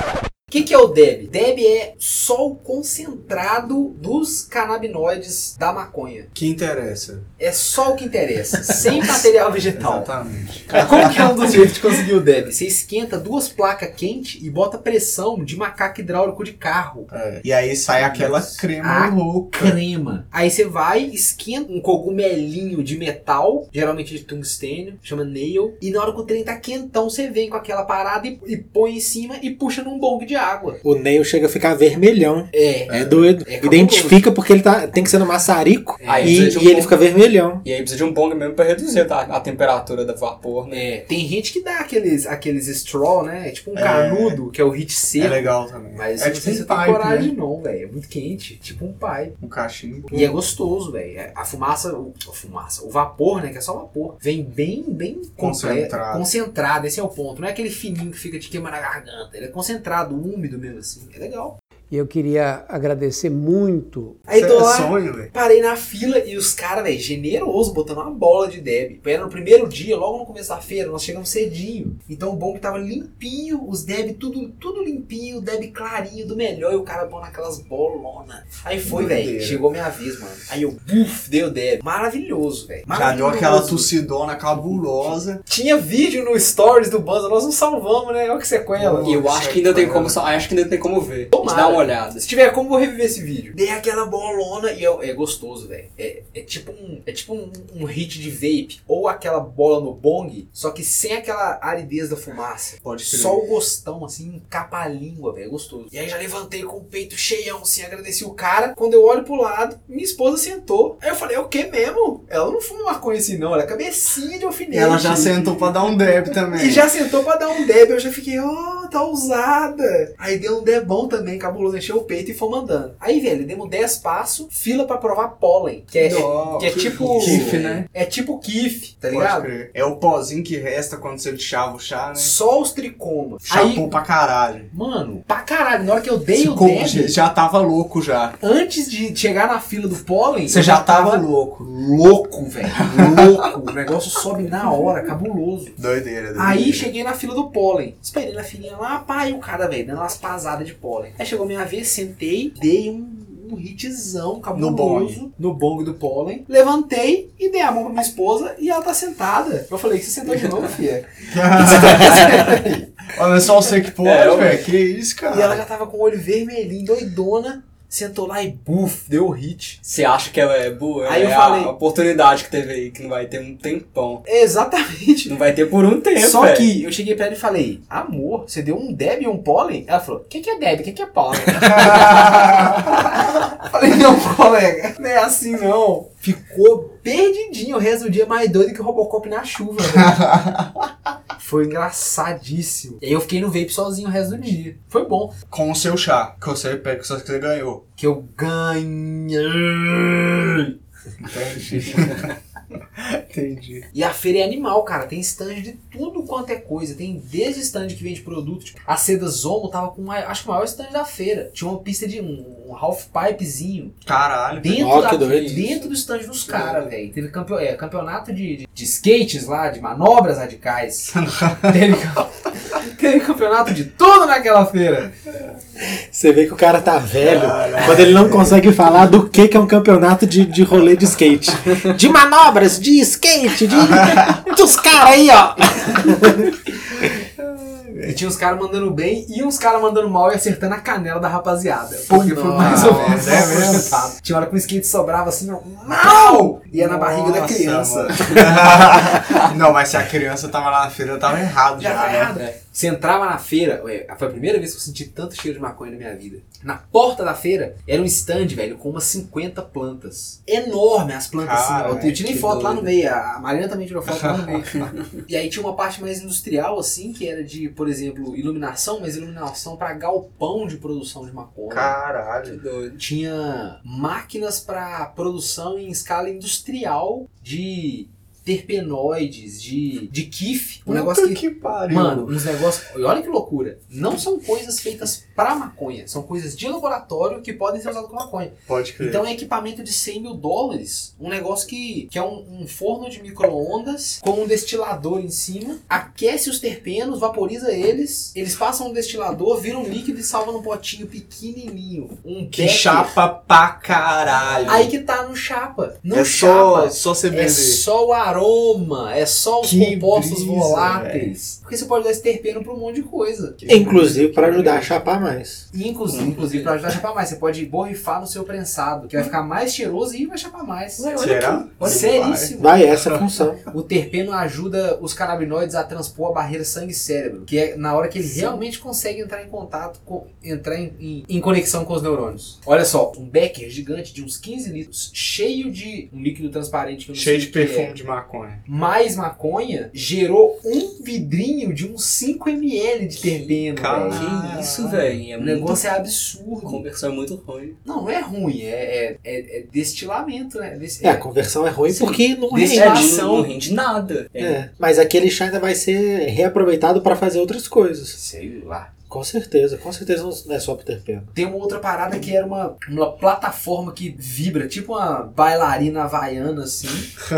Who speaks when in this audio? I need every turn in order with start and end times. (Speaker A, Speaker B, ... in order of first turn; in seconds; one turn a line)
Speaker A: 0.5-6.3
Speaker B: 6.3-7.3
Speaker A: 7.4-10.1
Speaker B: 8.9-11.5
Speaker A: 10.7-17.1
Speaker B: 17.1-19.8
Speaker A: 17.9-30.8
Speaker C: 30.8-37.6
Speaker A: 32.5-34.2
Speaker A: 36.0-36.4
Speaker D: 36.0-37.0
Speaker D: 37.6-40.9
Speaker A: 40.7-49.4
Speaker B: 43.8-44.4
Speaker B: 45.2-47.3
Speaker B: 49.4-50.3
Speaker A: 50.1-61.6
Speaker B: 55.4-56.3
Speaker E: 61.9-64.2
Speaker A: 64.3-83.9
Speaker B: 64.3-65.3
Speaker B: 78.9-79.6
Speaker B: 82.9-85.4
Speaker A: 85.1-89.2
Speaker B: 88.8-90.2
Speaker D: 89.0-92.2
Speaker A: 91.3-115.7
Speaker B: 102.8-103.5
Speaker B: 114.7-116.9
Speaker A: 116.5-129.5
Speaker B: 126.0-127.9
Speaker D: 126.7-127.8
Speaker B: 129.1-132.3
Speaker A: 132.2-133.9
Speaker B: 133.5-134.7
Speaker A: 134.7-137.2
Speaker B: 136.3-138.4
Speaker A: 138.4-145.8
Speaker B: 140.5-141.7
Speaker B: 142.8-143.3
Speaker B: 145.8-146.9
Speaker A: 146.4-162.9
Speaker B: 154.5-155.2
Speaker B: 161.3-165.6
Speaker D: 164.0-164.7
Speaker A: 165.3-169.8
Speaker D: 169.8-174.2
Speaker A: 171.0-171.7
Speaker A: 174.2-175.4
Speaker D: 175.3-176.7
Speaker A: 176.2-190.2
Speaker B: 181.7-182.9
Speaker B: 189.9-190.9
Speaker A: 191.4-195.3
Speaker B: 195.5-197.8
Speaker A: 198.0-200.7
Speaker B: 201.2-202.3
Speaker B: 203.0-203.9
Speaker A: 203.9-214.0
Speaker B: 214.1-214.9
Speaker A: 214.5-225.1
Speaker C: 214.7-215.8
Speaker B: 216.5-216.9
Speaker B: 221.1-221.8
Speaker C: 225.8-236.5
Speaker B: 227.2-228.6
Speaker B: 234.0-234.5
Speaker B: 236.9-238.2
Speaker A: 238.1-248.8
Speaker B: 242.1-244.1
Speaker D: 242.6-243.5
Speaker B: 245.9-252.3
Speaker D: 249.2-249.5
Speaker A: 251.8-272.0
Speaker B: 261.4-262.2
Speaker D: 262.1-262.9
Speaker B: 264.1-264.8
Speaker B: 271.7-272.6
Speaker D: 272.4-273.0
Speaker A: 273.0-303.2
Speaker B: 280.9-282.4
Speaker B: 288.7-289.2
Speaker B: 302.5-304.9
Speaker A: 304.6-315.0
Speaker B: 306.1-307.8
Speaker B: 309.6-311.3
Speaker B: 313.6-314.1
Speaker C: 313.7-315.6
Speaker A: 315.7-321.1
Speaker D: 316.3-316.7
Speaker D: 321.0-321.7
Speaker B: 321.1-323.3
Speaker A: 321.8-323.0
Speaker C: 322.6-323.6
Speaker A: 323.7-337.9
Speaker B: 337.1-338.6
Speaker A: 338.7-344.6
Speaker B: 343.7-345.2
Speaker D: 344.1-345.9
Speaker A: 345.4-346.8
Speaker D: 346.6-347.8
Speaker A: 347.9-351.3
Speaker C: 351.0-353.2
Speaker D: 351.9-352.2
Speaker A: 352.5-353.5
Speaker D: 352.7-354.6
Speaker C: 354.4-358.2
Speaker A: 358.1-358.9
Speaker C: 359.1-361.3
Speaker A: 361.3-367.1